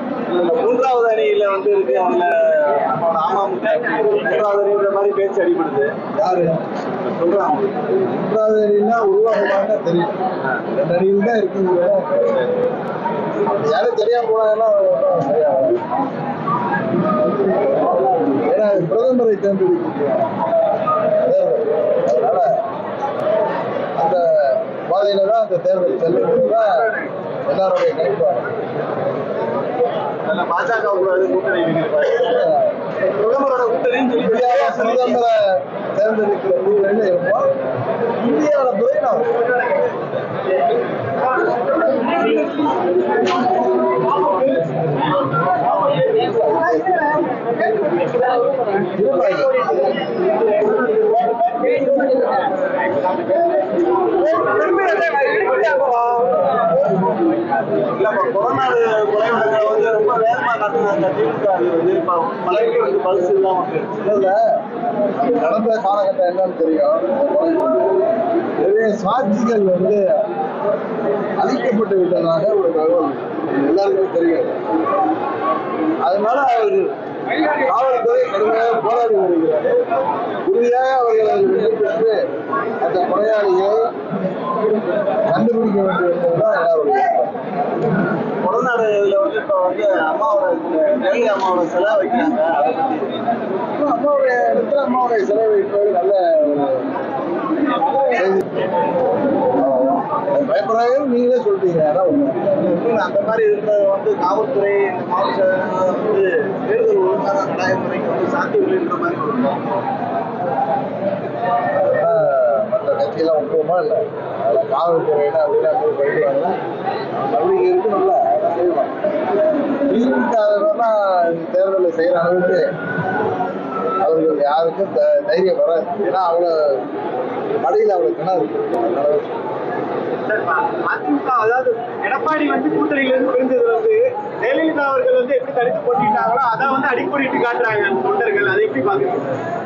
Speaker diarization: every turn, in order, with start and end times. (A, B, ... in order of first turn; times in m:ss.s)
0:00.2-0:05.9 A
0:06.2-0:06.6 B
0:06.9-0:07.8 A
0:08.1-0:12.6 B
0:13.4-0:15.9 B
0:18.3-0:20.3 B
0:21.1-0:22.5 B
0:24.0-0:26.9 B
0:27.5-0:28.5 B
0:30.2-0:32.5 A
0:32.2-0:32.7 B
0:33.0-0:35.2 A
0:34.2-0:37.5 B
0:38.2-0:39.5 B
0:42.0-0:42.4 C
0:48.9-0:49.7 B
0:51.8-0:52.2 C
0:54.3-0:56.3 A
0:54.9-0:55.8 C
0:57.9-1:04.0 A
1:04.0-1:04.4 B
1:05.1-1:08.0 B
1:08.6-1:10.2 B
1:11.4-1:14.6 B
1:16.0-1:16.9 B
1:17.6-1:19.8 B
1:20.4-1:22.2 B
1:22.8-1:23.9 B
1:25.3-1:27.3 B
1:28.4-1:33.2 A
1:33.8-1:36.9 B
1:38.0-1:38.5 B
1:39.6-1:42.6 B
1:42.6-1:49.8 A
1:51.8-1:56.6 B
1:57.2-1:58.9 B
1:59.9-2:02.7 B
2:04.0-2:06.5 B
2:07.6-2:09.3 B
2:10.3-2:19.4 C